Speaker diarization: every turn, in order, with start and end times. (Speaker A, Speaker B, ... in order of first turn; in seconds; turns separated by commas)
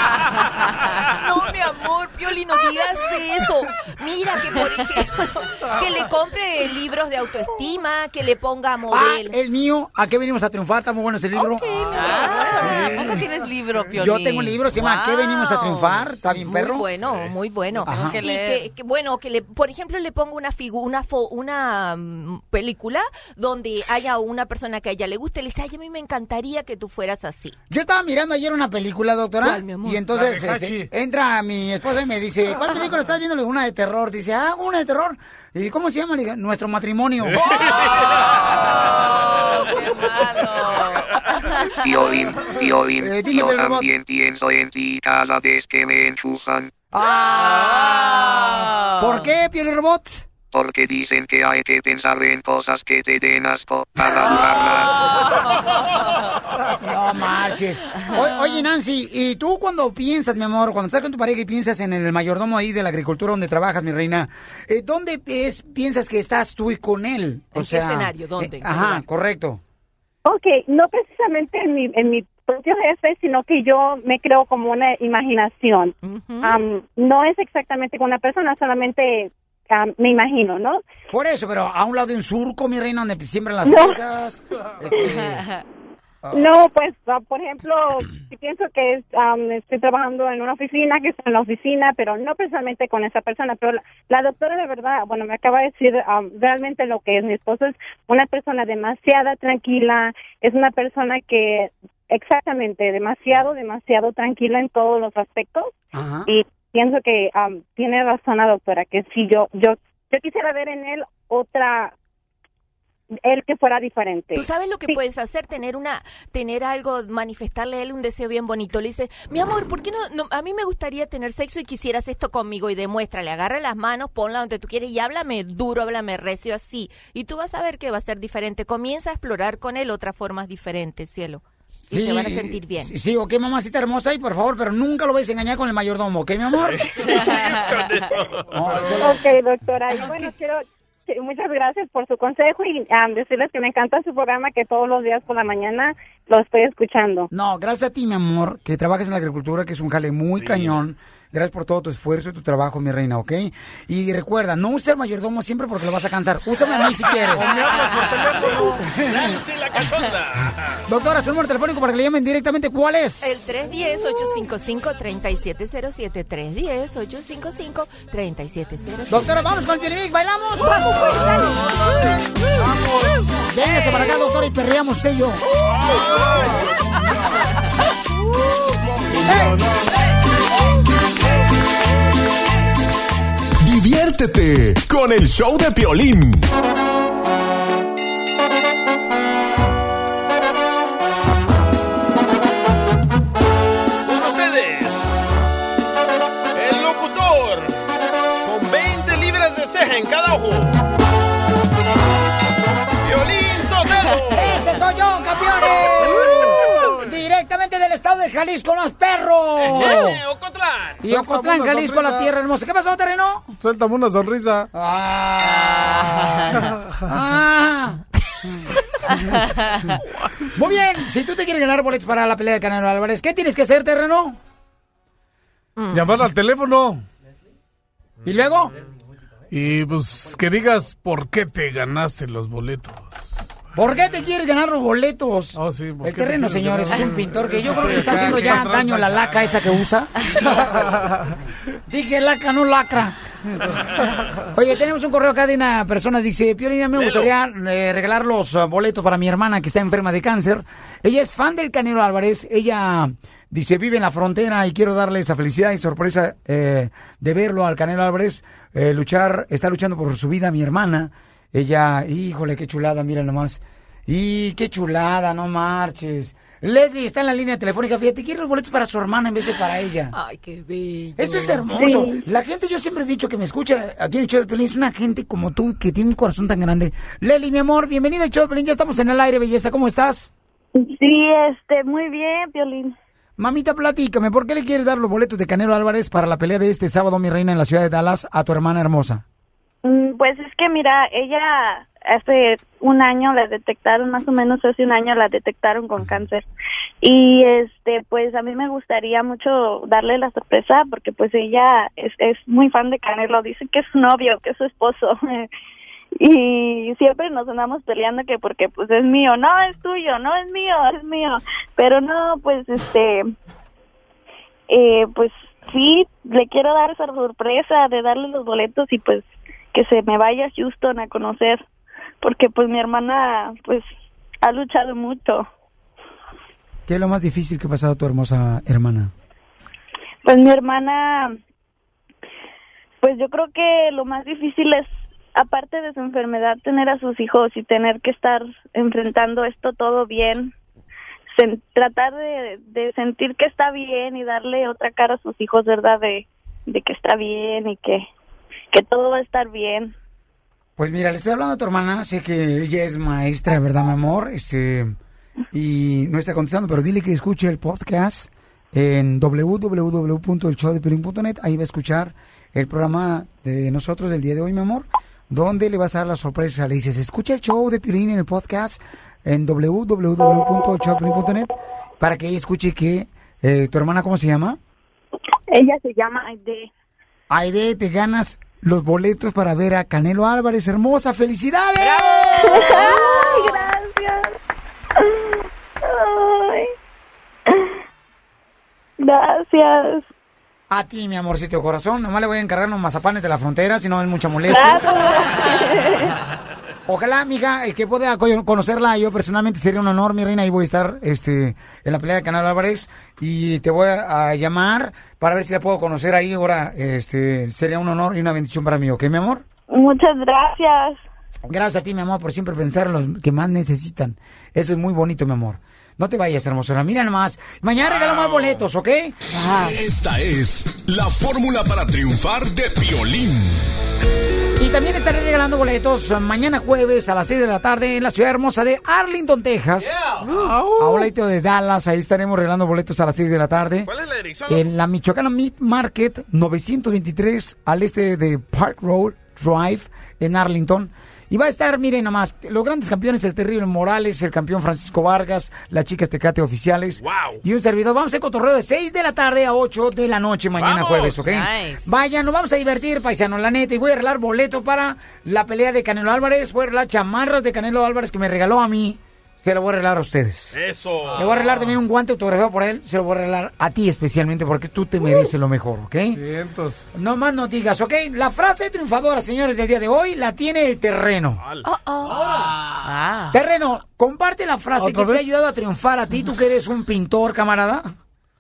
Speaker A: 1.1-9.4, Speaker B: 8.9-13.2, Speaker C: 11.6-16.0, Speaker B: 13.9-16.9, Speaker A: 16.3-27.6, Speaker D: 17.1-17.3, Speaker B: 17.8-18.2, Speaker C: 17.9-18.7, Speaker B: 27.7-37.5, Speaker A: 29.4-30.0, Speaker E: 30.1-30.9, Speaker D: 37.3-38.5, Speaker A: 39.2-40.9, Speaker C: 40.1-41.0, Speaker F: 41.8-46.7, Speaker B: 43.0-43.9, Speaker B: 46.9-50.2, Speaker F: 50.5-55.1, Speaker B: 56.8-69.6, Speaker A: 67.5-69.0, Speaker G: 70.2-80.8, Speaker A: 76.0-76.6, Speaker B: 81.1-85.5, Speaker G: 83.7-84.0, Speaker B: 86.2-86.5, Speaker G: 86.3-105.7, Speaker B: 105.9-106.3, Speaker G: 106.3-111.9, Speaker G: 113.2-114.5, Speaker A: 114.3-132.9, Speaker B: 131.9-136.9, Speaker D: 136.6-139.0, Speaker C: 137.0-137.5, Speaker B: 138.5-139.2, Speaker G: 139.0-147.3, Speaker B: 147.3-157.5, Speaker D: 150.4-150.8, Speaker D: 157.4-160.8, Speaker E: 157.4-158.8, Speaker B: 158.4-159.4, Speaker B: 160.9-163.4, Speaker A: 163.2-169.4, Speaker B: 169.1-171.4, Speaker B: 173.5-175.4, Speaker D: 175.7-176.6, Speaker B: 179.1-179.6, Speaker E: 179.2-179.7, Speaker H: 183.6-186.5, Speaker D: 194.1-195.1, Speaker D: 196.5-197.8, Speaker D: 198.4-200.8, Speaker D: 203.0-204.7, Speaker B: 204.3-210.2, Speaker E: 206.5-207.0, Speaker D: 209.6-211.0, Speaker B: 211.0-213.5, Speaker E: 211.1-212.3, Speaker E: 213.6-214.7, Speaker B: 214.7-218.0, Speaker E: 216.6-216.9, Speaker B: 220.6-224.4, Speaker A: 225.8-226.2, Speaker E: 225.9-227.1, Speaker B: 228.2-228.7, Speaker E: 229.5-233.3, Speaker B: 233.8-240.9, Speaker E: 235.6-239.7, Speaker E: 240.3-241.3, Speaker B: 241.9-243.5, Speaker B: 244.5-270.1, Speaker D: 246.9-247.3, Speaker A: 269.5-271.9, Speaker B: 271.2-280.3, Speaker I: 280.8-282.9, Speaker B: 283.4-289.2, Speaker I: 289.8-296.4, Speaker I: 297.0-305.5, Speaker I: 306.2-313.2, Speaker I: 314.7-321.6, Speaker I: 322.2-323.9, Speaker I: 324.4-325.5, Speaker B: 326.9-329.1, Speaker I: 330.2-331.3, Speaker I: 333.0-340.5, Speaker I: 341.4-348.1, Speaker I: 348.7-349.9, Speaker B: 350.8-355.0, Speaker B: 355.5-374.6, Speaker G: 375.5-376.6, Speaker B: 377.3-382.8, Speaker I: 382.4-384.3, Speaker A: 382.9-383.5, Speaker I: 385.0-386.7, Speaker I: 389.0-390.1, Speaker B: 390.7-394.9, Speaker I: 394.5-396.1, Speaker B: 396.9-409.4, Speaker I: 409.7-411.0, Speaker B: 411.5-419.8, Speaker D: 417.8-418.7, Speaker H: 419.6-423.7, Speaker B: 424.6-430.0, Speaker D: 429.8-430.3, Speaker E: 430.4-431.0, Speaker B: 430.8-433.9, Speaker D: 433.9-434.7, Speaker B: 434.5-460.6, Speaker D: 447.0-447.4, Speaker D: 450.6-451.2, Speaker C: 451.2-451.8, Speaker D: 460.5-461.5, Speaker B: 461.1-466.2, Speaker E: 466.1-466.9, Speaker B: 466.9-471.4, Speaker A: 471.7-472.3, Speaker E: 472.1-472.5, Speaker B: 473.3-477.9, Speaker E: 474.8-475.2